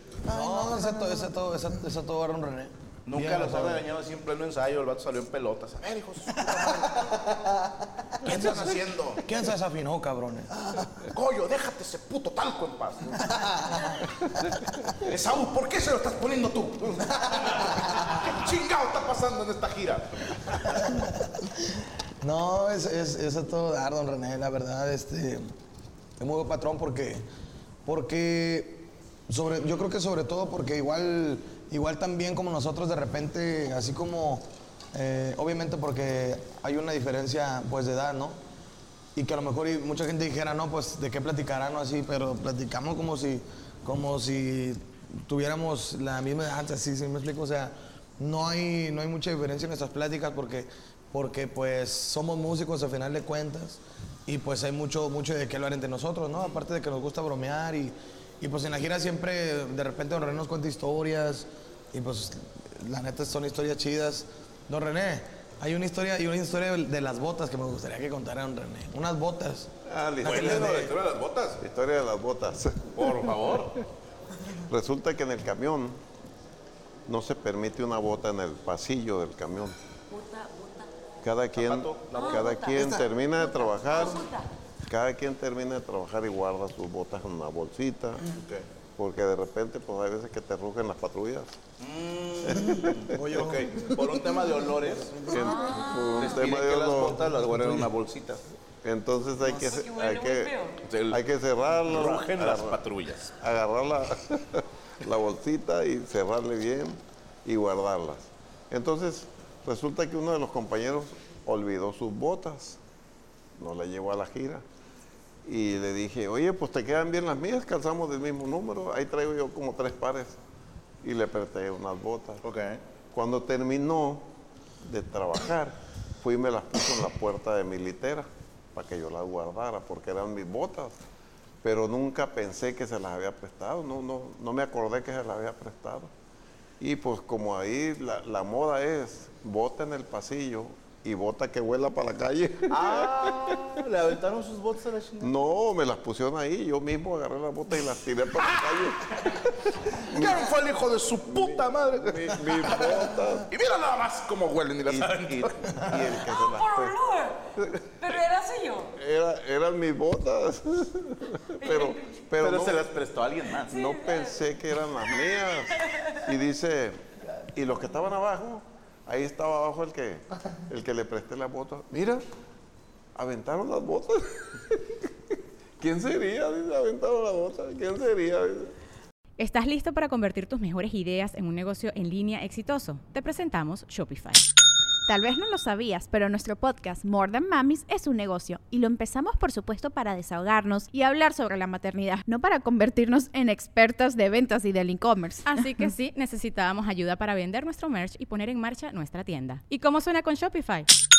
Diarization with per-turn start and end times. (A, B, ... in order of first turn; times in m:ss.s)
0:00.3-0:03.8 A
0:03.1-0:07.1 B
0:08.2-0:09.2 B
0:08.2-0:10.5 A
0:11.1-0:13.2 B
0:15.0-0:20.8 B
0:20.8-0:25.5 A
0:26.2-0:27.2 A
0:27.8-0:38.4 A
0:39.2-1:09.7 A
1:09.9-1:10.9 C
1:10.2-1:10.9 A
1:10.2-1:11.6 B
1:11.6-1:13.3 C
1:13.0-1:13.7 B
1:14.7-1:16.0 C
1:17.1-1:19.8 C
1:20.1-1:20.9 D
1:21.2-1:24.2 C
1:21.5-1:22.7 B
1:22.1-1:24.5 D
1:24.8-1:28.2 C
1:28.2-1:28.6 B
1:29.0-1:31.6 C
1:31.8-1:35.6 B
1:32.5-1:32.9 C
1:32.8-1:35.5 A
1:35.3-1:37.2 C
1:35.3-1:36.4 D
1:36.2-1:38.4 B
1:36.9-1:37.9 A
1:38.8-1:40.5 C
1:39.4-1:40.8 D
1:40.8-1:41.2 B
1:41.1-1:42.8 C
1:41.8-1:43.3 B
1:43.4-1:52.8 C
1:53.6-1:54.6 C
1:55.4-2:00.4 C
2:01.0-2:02.4 C
2:02.4-2:02.8 B
2:03.1-2:04.2 C
2:04.8-2:11.0 C
2:11.6-2:16.1 C
2:16.8-2:23.6 C
2:22.7-2:25.3 B
2:25.2-2:30.5 C
2:30.0-2:35.7 B
2:31.3-2:33.5 C
2:34.9-2:37.0 C
2:36.2-2:37.5 D
2:38.0-2:38.9 D
2:39.0-2:42.8 C
2:41.6-2:42.1 D
2:42.4-2:43.8 B
2:43.7-2:44.4 D
2:43.7-2:47.0 C
2:45.8-2:46.2 D
2:47.5-2:52.2 C
2:53.1-2:54.8 C
2:55.8-2:58.7 C
2:59.4-3:04.4 E
3:05.1-3:15.8 F
3:15.4-3:20.9 E